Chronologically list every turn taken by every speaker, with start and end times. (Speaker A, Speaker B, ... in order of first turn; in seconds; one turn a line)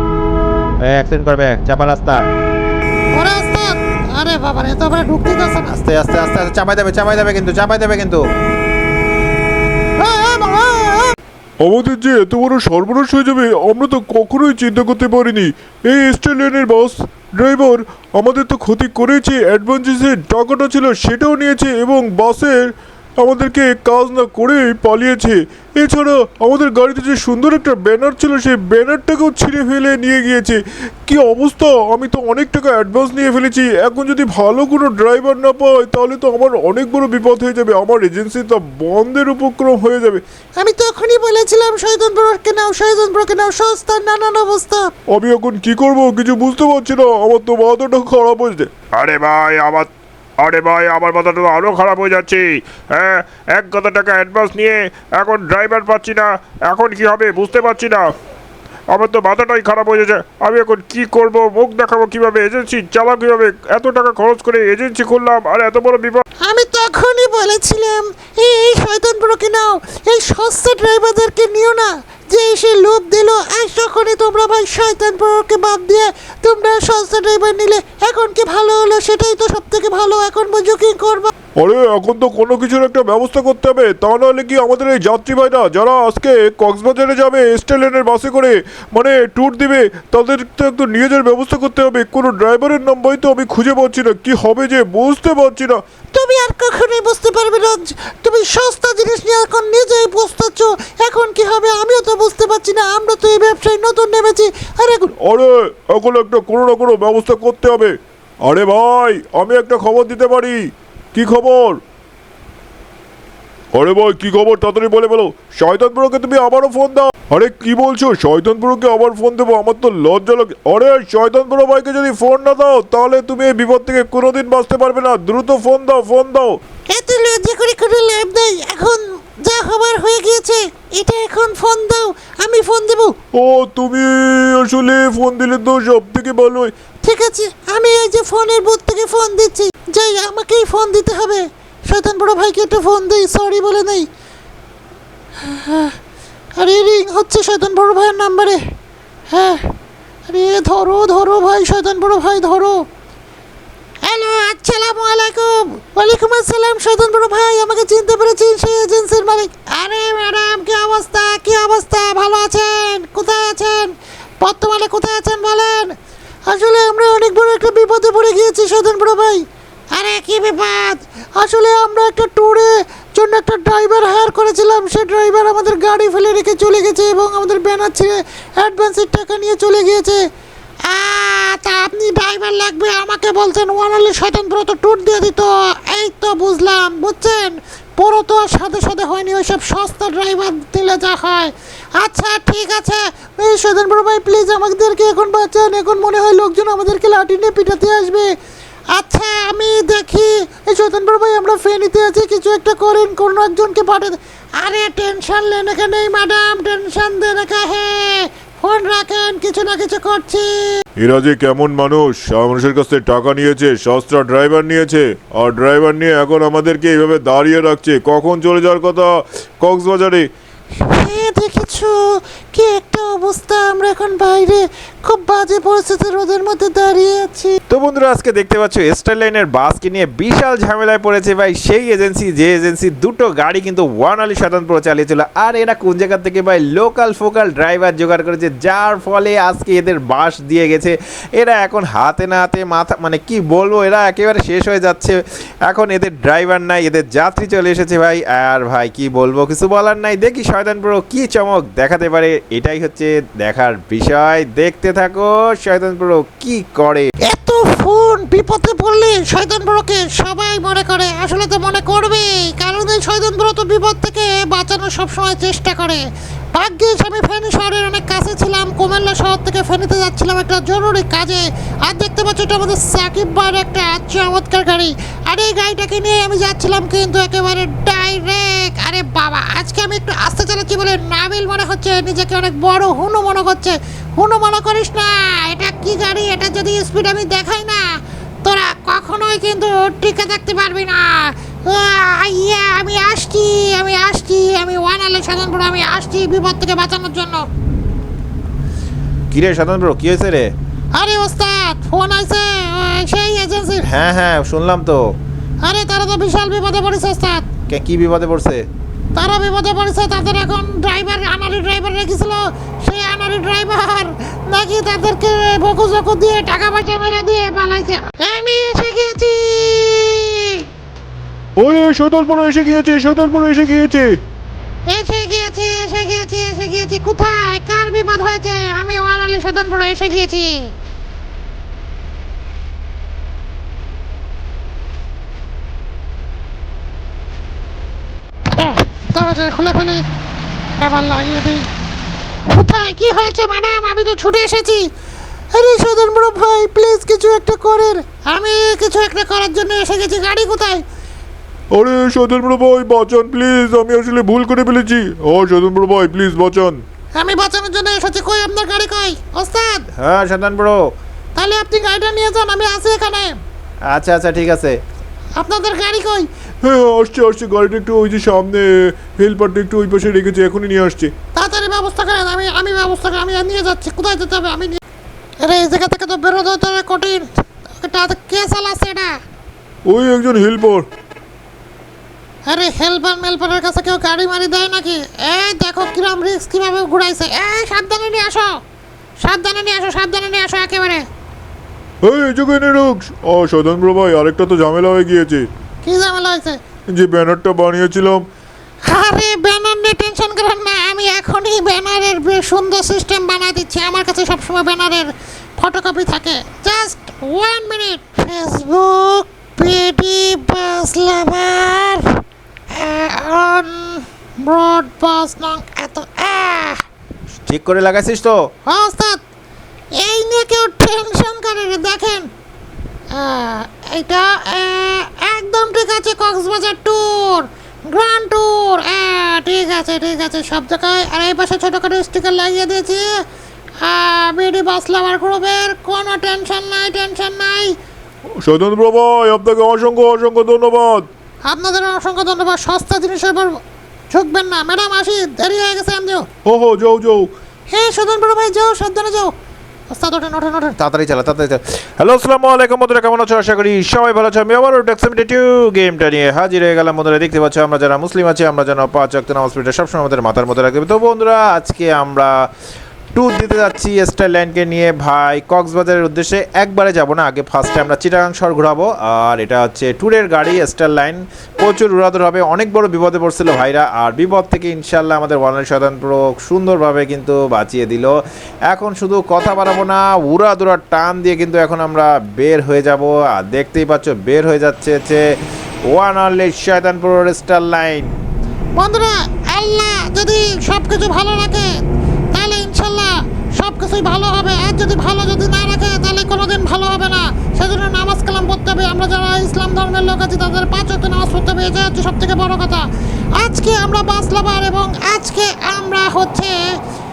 Speaker A: 0.8-2.3
Speaker B: 3.1-5.8
Speaker A: 5.8-8.2
Speaker B: 10.0-11.2
Speaker C: 11.6-40.2
Speaker B: 40.6-44.9
Speaker C: 45.1-48.7
Speaker D: 49.0-58.1
Speaker D: 58.9-66.2
Speaker B: 66.4-81.3
Speaker C: 81.6-95.8
Speaker B: 96.1-105.1
Speaker C: 105.2-111.8
Speaker C: 113.7-126.6
Speaker B: 126.9-133.2
Speaker C: 133.3-136.7
Speaker B: 137.0-144.1
Speaker B: 145.4-146.0
Speaker B: 146.6-148.6
Speaker B: 149.3-149.7
Speaker B: 150.3-152.8
Speaker B: 154.0-165.9
Speaker B: 166.5-169.4
Speaker B: 169.9-180.2
Speaker B: 180.9-198.3
Speaker B: 198.9-210.8
Speaker C: 211.0-220.3
Speaker B: 220.8-227.6
Speaker A: 227.7-257.1
Speaker B: 257.3-266.0
Speaker B: 266.6-287.9
Speaker B: 288.4-297.5
Speaker A: 299.3-300.5
Speaker B: 300.9-303.9
Speaker A: 303.8-305.1
Speaker B: 305.6-307.5
Speaker A: 307.7-308.7
Speaker B: 309.1-320.6
Speaker C: 321.6-324.2
Speaker B: 324.9-330.7
Speaker B: 338.5-340.0
Speaker B: 340.8-341.7
Speaker B: 342.5-344.9
Speaker B: 345.5-350.8
Speaker C: 351.7-356.8
Speaker B: 357.1-359.9
Speaker A: 359.9-360.9
Speaker B: 361.4-363.4
Speaker A: 363.9-364.8
Speaker B: 365.4-366.3
Speaker C: 366.6-371.1
Speaker B: 371.4-374.8
Speaker B: 375.4-379.2
Speaker C: 379.9-380.9
Speaker B: 382.5-388.6
Speaker B: 389.2-391.1
Speaker C: 392.0-395.5
Speaker B: 395.8-396.6
Speaker C: 396.9-398.2
Speaker B: 398.8-416.8
Speaker A: 417.4-418.4
Speaker B: 418.7-419.2
Speaker B: 419.9-422.3
Speaker B: 423.1-433.2
Speaker B: 433.8-437.8
Speaker C: 438.4-441.1
Speaker B: 441.4-446.3
Speaker C: 446.4-447.3
Speaker B: 447.7-449.3
Speaker B: 449.9-450.8
Speaker A: 450.8-462.5
Speaker A: 463.1-478.1
Speaker A: 478.7-485.2
Speaker A: 485.9-488.1
Speaker B: 488.8-491.7
Speaker B: 492.3-506.6